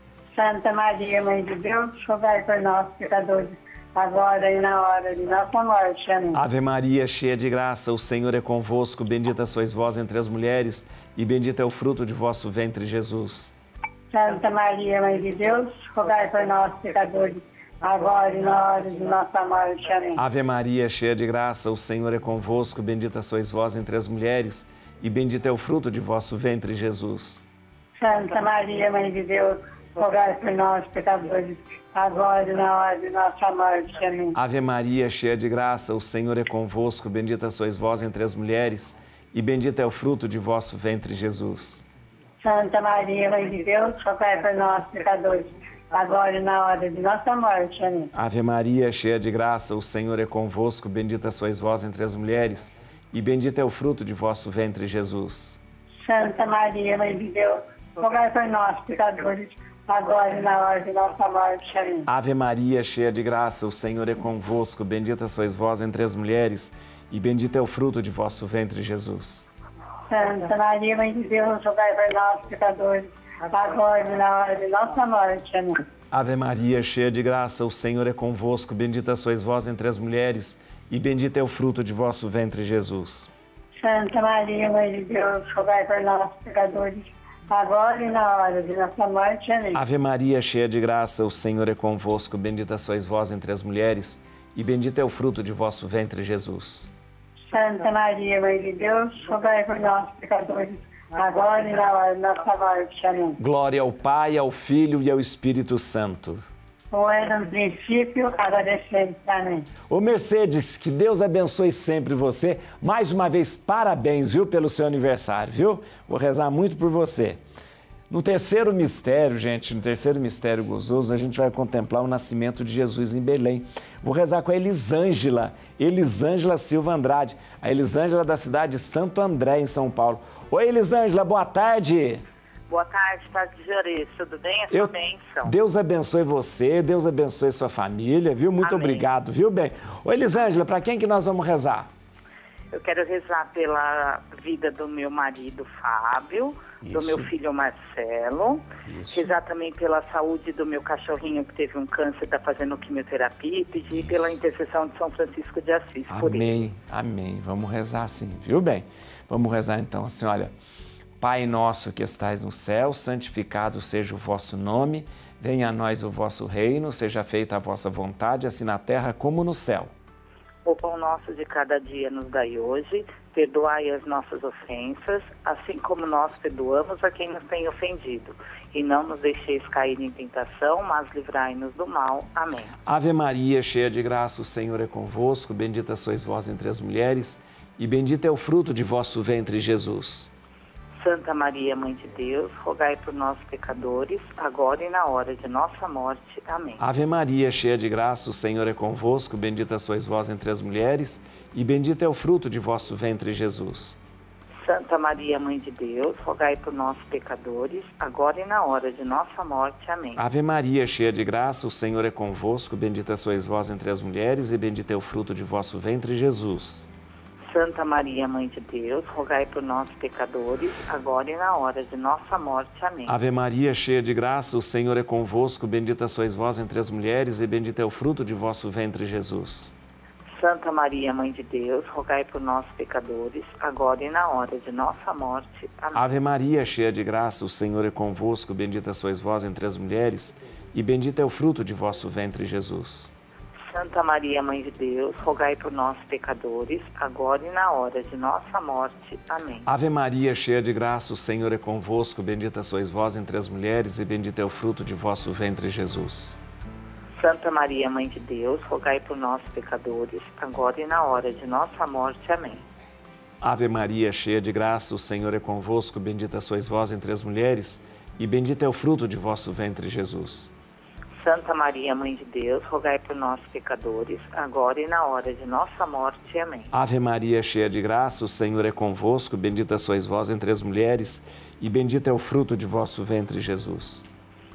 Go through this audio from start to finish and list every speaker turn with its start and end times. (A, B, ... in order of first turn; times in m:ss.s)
0:00.3-0:06.4 A
0:06.3-0:13.5 B
0:14.1-0:20.2 A
0:20.2-0:27.4 B
0:28.0-0:34.4 A
0:34.3-0:41.8 B
0:42.4-0:48.1 A
0:48.1-0:55.6 B
0:56.0-1:02.1 A
1:02.1-1:09.5 B
1:10.1-1:15.8 A
1:16.1-1:23.3 B
1:23.8-1:29.8 A
1:29.7-1:36.9 B
1:37.5-1:43.4 A
1:43.4-1:46.4 B
1:46.9-1:49.7 A
1:49.9-1:57.4 B
1:58.1-2:12.2 B
2:12.7-2:15.5 C
2:14.7-2:21.9 B
2:18.6-2:19.1 C
2:22.7-2:36.5 C
2:26.8-2:27.3 B
2:28.9-2:29.3 B
2:36.1-2:40.5 B
2:41.2-2:49.9 B
2:50.6-3:02.7 C
3:02.8-3:10.3 B
3:11.0-3:16.8 C
3:16.8-3:24.0 B
3:24.6-3:30.2 C
3:30.2-3:36.9 B
3:37.4-3:43.2 C
3:43.1-3:49.7 B
3:50.3-3:56.0 C
3:55.9-4:03.1 B
4:03.6-4:09.6 C
4:09.6-4:16.4 B
4:17.2-4:22.6 C
4:23.4-4:30.5 B
4:31.2-4:36.7 C
4:36.7-4:44.0 B